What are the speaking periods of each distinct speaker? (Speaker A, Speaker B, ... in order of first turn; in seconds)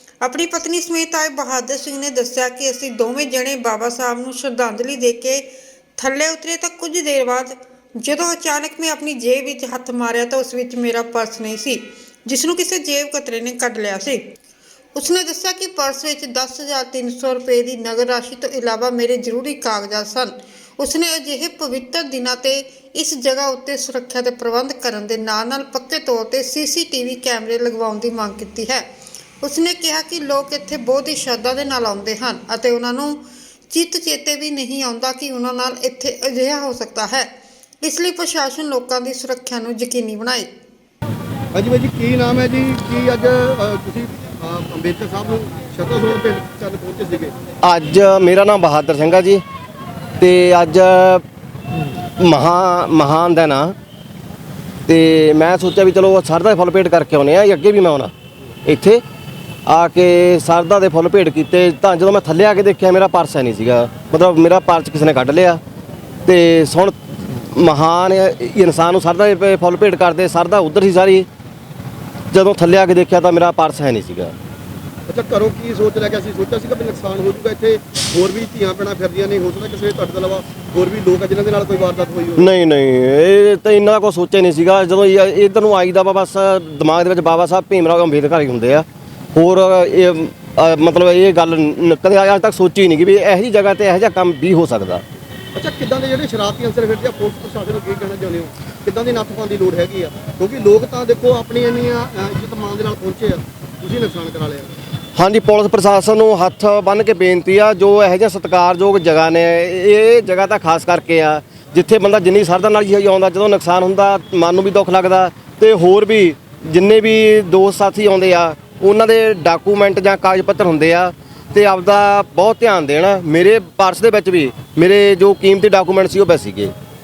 Speaker A: 0.2-5.4, 6.0-14.2, 14.9-28.9, 29.4-37.3, 37.8-40.5
Speaker B: 41.5-47.3, 75.1-82.5, 95.5-104.7
Speaker C: 47.6-49.4, 50.2-51.2, 52.2-53.7, 54.9-58.1, 58.6-59.0, 59.6-65.6, 66.2-71.3, 72.3-74.3, 82.4-95.0, 105.2-126.7